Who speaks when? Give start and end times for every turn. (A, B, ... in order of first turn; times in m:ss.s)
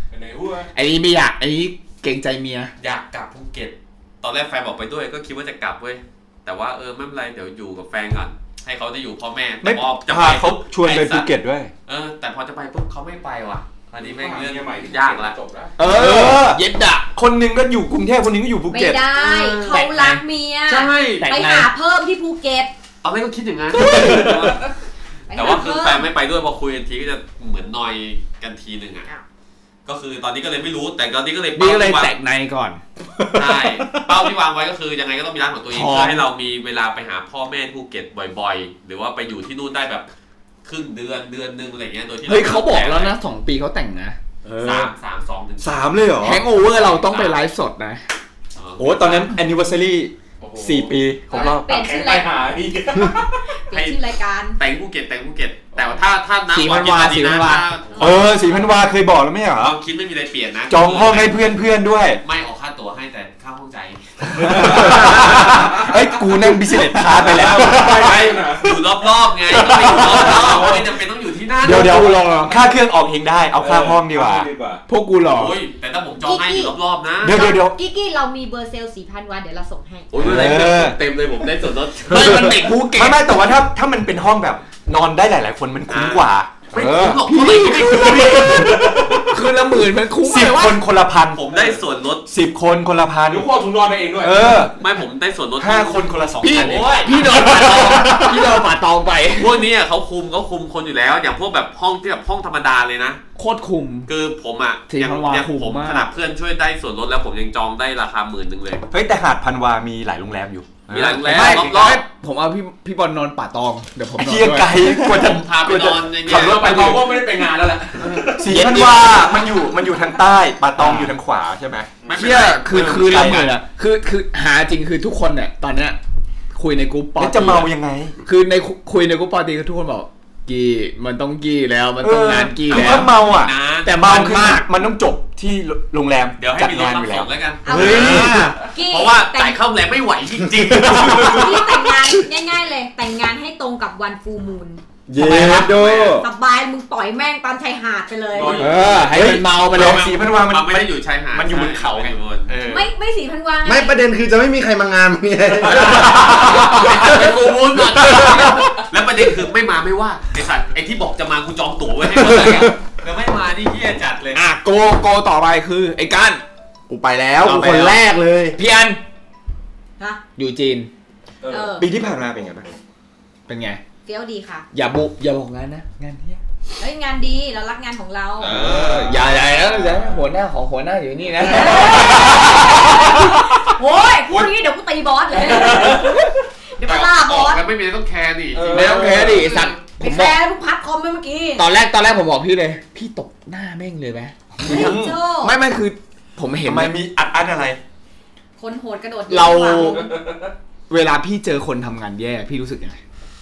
0:00.1-0:00.7 A
0:00.8-0:02.7 B
0:02.8-0:11.3 C
0:09.6-0:11.7 D
0:11.9-0:15.4 C
0:14.0-0:15.8 A
0:15.8-0:17.1 B
0:15.8-0:16.6 D
0:17.2-0:19.0 D
0:18.7-0:22.7 E
0:19.2-0:21.3 C
0:21.2-0:21.7 B
0:23.0-0:24.7 C
0:23.8-0:24.5 D
0:25.3-0:26.1 E
0:25.3-0:29.1 C
0:29.9-0:32.1 C
0:31.6-0:32.8 B
0:33.2-0:34.1 D
0:33.3-0:40.1 C
0:35.7-0:36.2 B
0:40.6-0:43.2 C
0:42.3-0:44.2 B
0:44.5-0:44.9 D
0:44.6-0:45.9 C
0:45.6-0:46.4 D
0:46.2-0:48.0 B
0:46.5-0:47.4 C
0:48.6-0:49.4 C
0:48.8-0:51.7 D
0:50.4-0:53.4 A
0:51.3-0:52.3 E
0:53.5-0:54.6 E
0:53.7-0:54.0 C
0:54.6-0:58.2 C
0:56.5-0:57.7 B
0:57.9-0:58.8 E
0:58.0-0:59.8 D
0:59.6-1:01.4 C
1:00.7-1:02.2 D
1:02.2-1:05.3 C
1:04.4-1:08.7 D
1:04.4-1:08.7 A
1:07.8-1:12.0 C
1:09.5-1:10.7 D
1:09.8-1:10.9 A
1:11.6-1:14.5 D
1:11.6-1:12.5 B
1:12.5-1:12.8 E
1:13.6-1:14.8 A
1:14.9-1:15.6 B
1:15.3-1:17.4 C
1:16.2-1:16.8 E
1:17.2-1:17.8 D
1:17.3-1:20.3 E
1:20.1-1:22.6 C
1:20.2-1:21.0 D
1:22.1-1:23.2 B
1:22.1-1:27.2 D
1:25.9-1:28.7 C
1:27.2-1:30.8 B
1:27.9-1:29.1 A
1:28.4-1:29.2 D
1:30.2-1:31.4 D
1:31.3-1:32.2 C
1:31.5-1:31.8 A
1:32.3-1:33.5 D
1:33.3-1:34.6 A
1:34.2-1:34.8 D
1:34.8-1:37.1 C
1:35.6-1:38.5 D
1:36.4-1:39.6 B
1:39.4-1:43.2 C
1:43.4-1:44.1 B
1:44.1-1:48.8 C
1:44.9-1:46.1 B
1:48.9-1:51.4 D
1:50.9-1:52.0 C
1:51.3-1:55.4 B
1:54.2-1:57.1 D
1:55.1-1:57.0 C
1:56.3-1:58.8 A
1:58.3-2:03.5 D
1:58.6-1:59.0 C
2:00.8-2:01.2 B
2:02.0-2:02.3 A
2:02.0-2:03.5 C
2:02.2-2:06.0 B
2:06.5-2:13.1 B
2:07.2-2:08.2 D
2:12.0-2:18.6 D
2:12.7-2:14.1 C
2:13.8-2:14.7 B
2:16.4-2:21.6 C
2:17.6-2:19.6 E
2:17.8-2:18.6 B
2:20.7-2:21.6 D
2:21.2-2:24.8 E
2:25.1-2:26.3 D
2:25.2-2:25.7 B
2:25.5-2:26.2 C
2:25.9-2:28.7 E
2:28.3-2:32.5 C
2:28.4-2:29.0 A
2:28.6-2:30.2 B
2:28.7-2:32.9 D
2:32.6-2:34.0 E
2:33.6-2:37.0 F
2:35.7-2:44.4 C
2:36.7-2:37.2 E
2:42.2-2:42.7 D
2:44.3-2:46.4 B
2:46.9-2:48.6 F
2:47.4-2:48.0 B
2:48.6-2:49.0 B
2:50.4-2:50.9 B
2:51.4-2:51.7 A
2:51.5-2:51.9 E
2:51.8-2:52.7 D
2:53.5-2:53.8 B
2:54.0-2:54.7 E
2:54.7-2:56.4 B
2:56.8-2:58.6 E
2:58.4-3:00.1 D
2:58.5-2:58.9 C
2:58.7-3:03.2 B
3:01.4-3:07.6 E
3:05.5-3:06.1 A
3:06.8-3:09.7 C
3:08.6-3:09.4 A
3:08.7-3:10.4 B
3:09.0-3:11.7 E
3:11.6-3:17.0 B
3:14.6-3:15.6 E
3:14.6-3:15.2 D
3:16.7-3:17.8 D
3:18.6-3:20.2 E
3:19.3-3:20.1 B
3:20.0-3:20.5 A
3:20.9-3:23.0 B